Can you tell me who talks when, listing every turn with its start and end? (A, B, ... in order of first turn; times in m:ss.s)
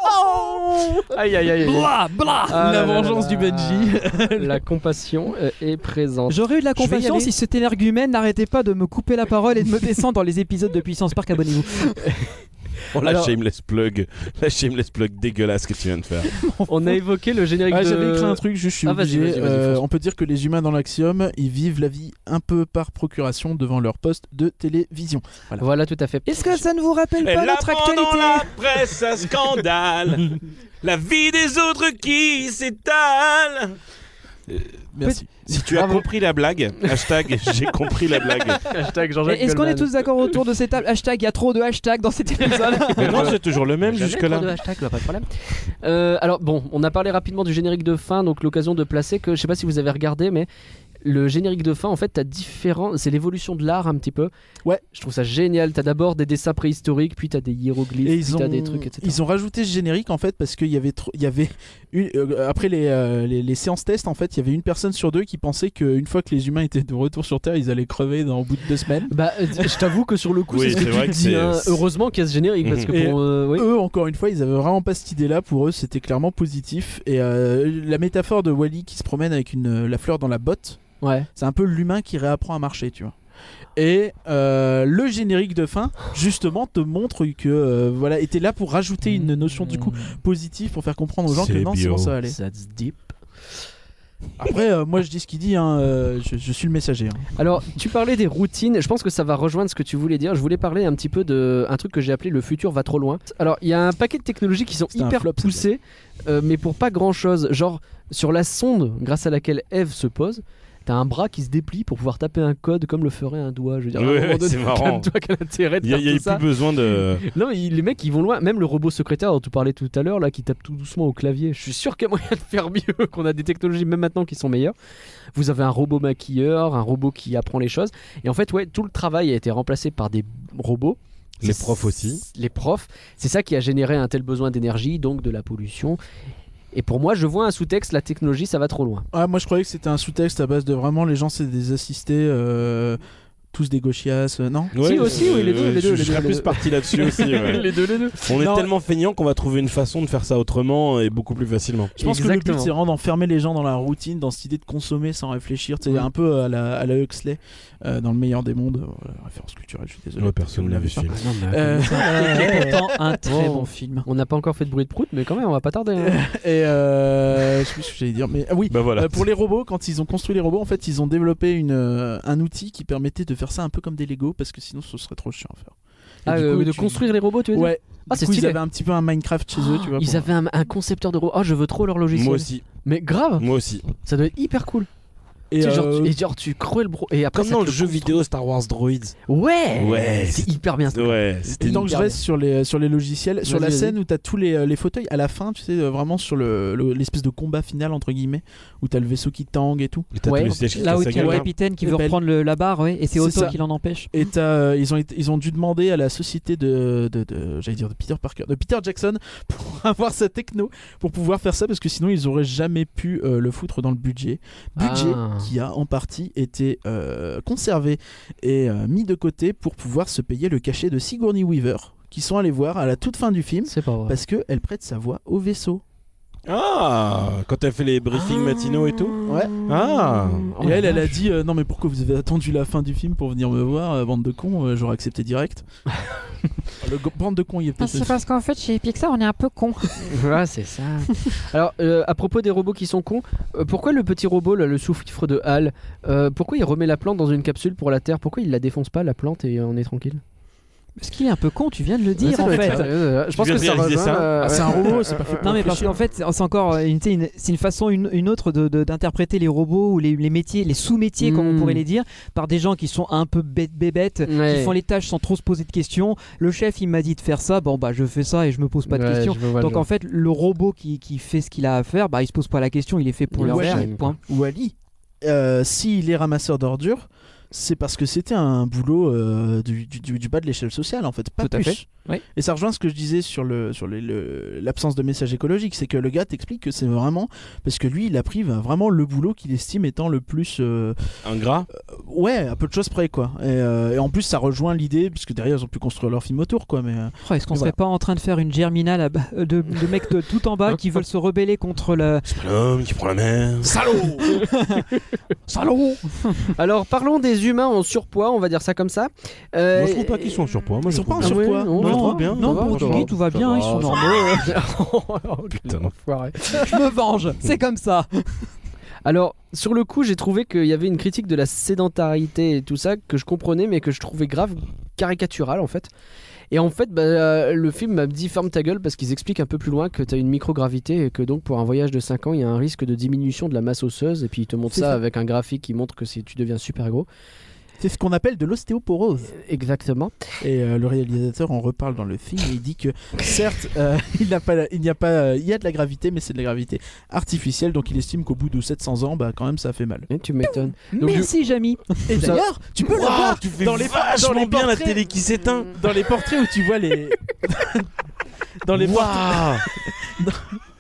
0:01.1-0:01.9 A
0:01.5-0:02.6 B
0:02.5-0:07.3 A
0:02.5-0:04.6 C
0:06.3-0:12.0 B
0:12.0-0:12.3 A
0:12.9-0:13.3 A
0:12.9-0:16.4 D
0:16.4-0:17.0 B
0:16.7-0:19.8 A
0:17.7-0:25.6 C
0:25.6-0:26.6 A
0:26.3-0:28.5 B
0:27.2-0:33.8 D
0:34.9-0:35.9 C
0:35.5-0:38.7 D
0:35.7-0:36.0 A
0:38.6-0:39.9 A
0:39.3-0:43.3 B
0:42.8-0:50.5 A
0:43.0-0:44.6 D
0:51.0-0:54.3 A
0:54.9-0:59.2 A
0:58.0-1:09.9 C
1:09.1-1:13.7 A
1:10.5-1:11.8 D
1:10.7-1:11.1 C
1:12.6-1:12.9 D
1:12.9-1:20.8 C
1:21.0-1:21.3 A
1:21.4-1:23.2 C
1:23.8-1:32.4 C
1:29.1-1:30.1 A
1:31.3-1:32.1 D
1:32.2-1:33.2 A
1:34.4-1:37.3 C
1:37.4-1:56.5 A
1:44.9-1:45.7 C
1:54.0-1:55.1 D
1:55.8-1:57.2 D
1:57.2-2:04.8 A
2:05.4-2:16.0 A
2:11.4-2:12.2 D
2:16.7-2:19.1 A
2:19.1-2:23.0 C
2:23.5-2:25.0 C
2:24.7-2:31.9 D
2:24.8-2:28.2 A
2:28.3-2:28.7 C
2:32.0-2:42.9 C
2:32.0-2:32.7 A
2:40.2-2:41.1 D
2:41.1-2:46.2 A
2:41.8-2:44.1 B
2:46.0-2:55.8 C
2:48.7-2:49.3 D
2:56.3-2:58.6 A
2:56.3-3:00.3 C
2:59.6-3:03.4 A
3:02.1-3:02.7 D
3:03.4-3:03.9 D
3:04.0-3:04.9 A
3:05.5-3:06.2 C
3:05.6-3:08.2 A
3:07.3-3:09.2 D
3:09.3-3:12.2 A
3:09.8-3:11.9 D
3:11.6-3:20.1 C
3:13.4-3:14.0 A
3:20.1-3:21.5 D
3:20.2-3:20.6 A
3:20.8-3:24.1 B
3:20.8-3:22.2 C
3:23.2-3:23.6 C
3:24.1-3:45.8 C
3:34.8-3:35.5 A
3:43.7-3:44.2 A
3:46.5-3:50.6 D
3:49.2-3:49.6 C
3:50.4-3:51.1 A
3:50.6-3:55.7 C
3:56.8-3:58.2 C
3:57.8-4:00.1 E
4:00.0-4:10.2 A
4:11.0-4:12.9 B
4:12.2-4:15.8 A
4:12.3-4:12.8 C
4:13.3-4:14.3 D
4:14.4-4:16.0 C
4:15.4-4:34.2 B
4:21.2-4:21.8 A
4:24.3-4:24.8 A
4:28.9-4:29.9 A
4:33.3-4:34.1 A
4:33.4-4:51.0 C
4:41.4-4:42.2 B
4:51.2-4:51.7 D
4:51.8-4:57.7 C
4:57.2-5:02.3 B
5:02.3-5:04.4 D
5:04.5-5:04.9 B
5:05.9-5:06.5 B
5:06.6-5:10.3 A
5:09.7-5:14.3 D
5:10.9-5:12.0 C
5:11.2-5:16.7 A
5:11.8-5:14.5 B
5:15.5-5:15.9 D
5:16.5-5:18.5 B
5:19.0-5:25.9 A
5:26.5-5:37.1 A
5:34.7-5:35.0 C
5:37.8-5:39.3 C
5:39.3-5:40.1 A
5:40.4-5:50.1 C
5:50.1-5:51.3 A
5:50.5-5:52.4 B
5:52.1-5:55.1 C
5:52.1-5:52.4 A
5:52.8-5:55.8 D
5:55.7-5:57.9 C
5:58.6-6:00.6 C
5:58.7-5:59.6 D